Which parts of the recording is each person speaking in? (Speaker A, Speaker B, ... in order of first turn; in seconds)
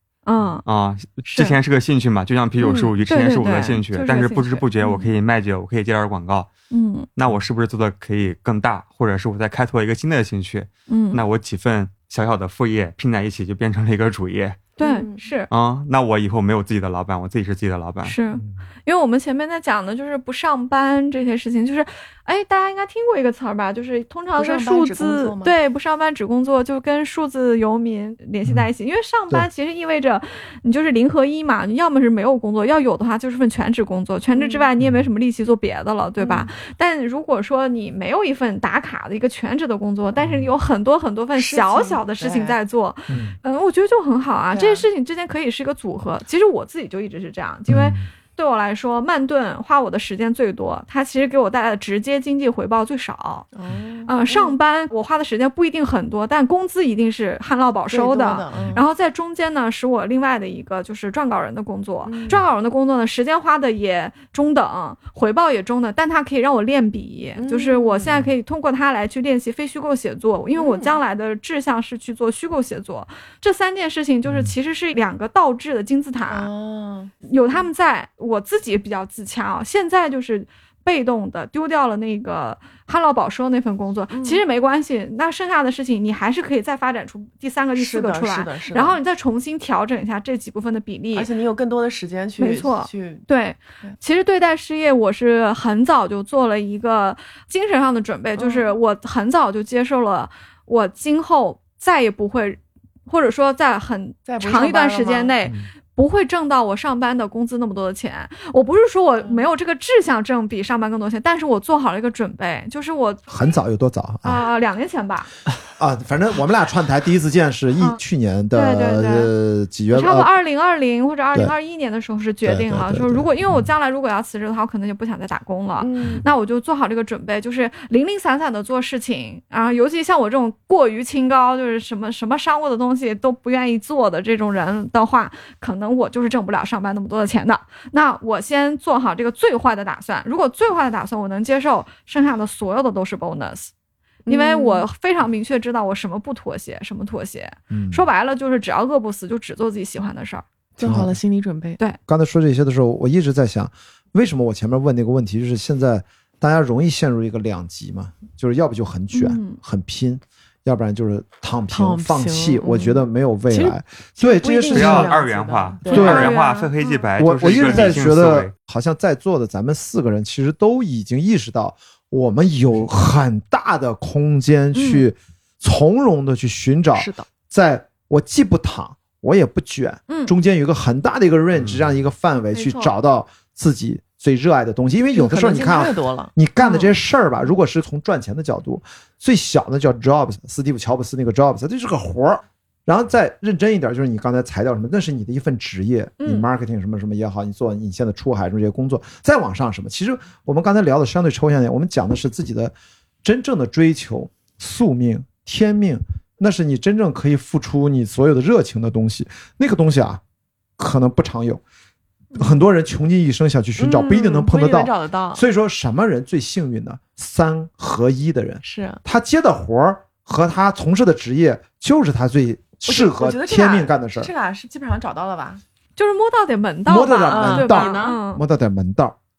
Speaker A: 0.2-0.6, 1.3-1.6, 3.1-4.7, 6.7-7.1, 10.9-11.2, 14.8-15.5, 18.0-53.5, 54.0-76.5, 77.2-91.3, 92.4-113.3, 114.2-115.3, 118.5-119.3, 119.9-143.7, 144.3-150.4, 159.1-159.6, 165.9-167.1, 174.7-175.1, 180.1-180.3, 182.5-182.9, 186.6-186.9, 196.2-196.5, 225.9-228.4
Speaker B: 0.6-6.5, 7.2-14.8, 15.5-18.1, 164.7-168.5
Speaker C: 2.6-2.9, 14.8-15.2, 24.4-25.6, 34.4-34.7, 36.2-36.5, 41.3-42.6, 44.5-44.9, 53.5-54.5, 57.9-58.8, 62.0-62.4, 67.3-68.2, 70.5-71.0, 76.3-77.1, 84.1-84.4, 87.8-89.0, 91.1-93.2, 98.4-98.7, 104.3-105.3, 125.8-126.2, 144.2-144.8, 150.8-151.8, 161.7-166.4, 167.5-168.0, 176.9-177.2, 185.1-186.3, 213.8-215.4, 218.6-219.0, 222.8-225.6, 227.3-228.2
Speaker D: 34.8-35.1, 40.2-40.5, 43.1-43.3, 47.7-48.1, 74.2-74.5, 113.3-114.4, 115.7-120.3, 122.4-123.7, 147.7-148.1, 150.8-151.2, 152.1-165.1, 165.9-166.3, 167.2-202.7, 203.2-210.2, 210.8-211.6, 212.3-224.3, 226.9-229.2